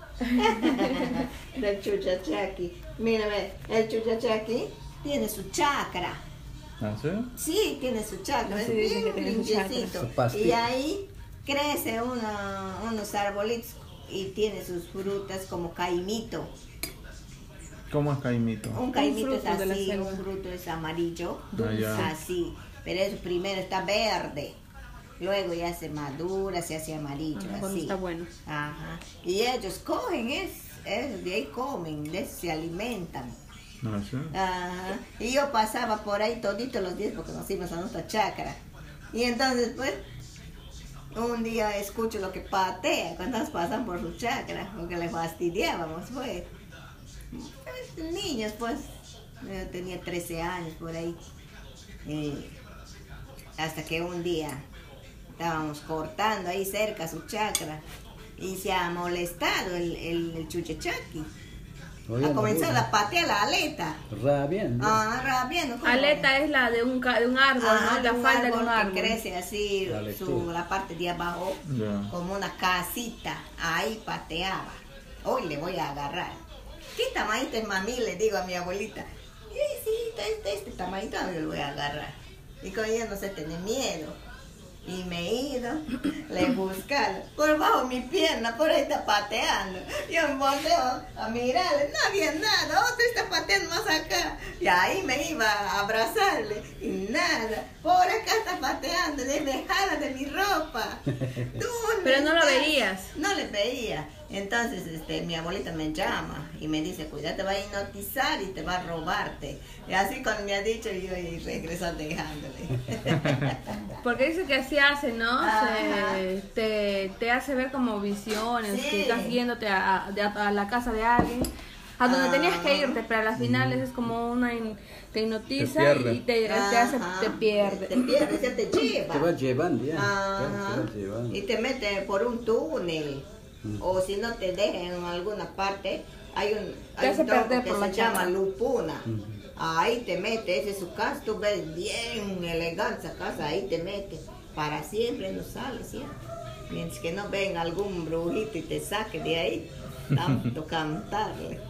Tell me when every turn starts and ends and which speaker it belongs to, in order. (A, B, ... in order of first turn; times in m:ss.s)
0:00.4-0:06.2 A
0:06.8-0:07.3 B
0:07.4-0:16.5 A
0:08.5-0:10.0 C
0:10.0-0:10.7 D
0:17.9-0:18.8 B
0:18.7-0:24.6 A
0:18.9-0:20.2 C
0:21.5-0:22.1 C
0:21.6-0:22.1 B
0:25.2-0:33.4 A
0:27.4-0:28.3 C
0:33.8-0:34.3 B
0:34.3-0:38.6 A
0:39.1-0:40.0 A
0:41.1-0:46.5 A
0:47.3-0:51.2 A
0:52.0-0:52.6 A
0:53.6-0:54.6 A
0:55.4-0:57.8 A
0:58.4-1:01.3 A
1:02.1-1:02.9 D
1:02.2-1:04.0 A
1:04.1-1:05.0 D
1:04.8-1:06.3 A
1:05.8-1:09.2 C
1:07.6-1:16.4 A
1:09.9-1:10.5 D
1:11.6-1:12.1 B
1:17.0-1:24.2 A
1:24.8-1:54.0 A
1:42.0-1:43.1 C
1:54.0-2:08.3 C
1:55.4-1:56.2 A
1:58.7-1:59.4 A
2:02.0-2:03.0 A
2:03.4-2:03.8 D
2:05.6-2:06.2 D
2:06.4-2:09.3 A
2:09.1-2:11.4 D
2:10.0-2:13.3 A
2:13.8-2:26.2 A
2:17.0-2:18.3 C
2:19.1-2:19.4 D
2:26.7-2:31.6 A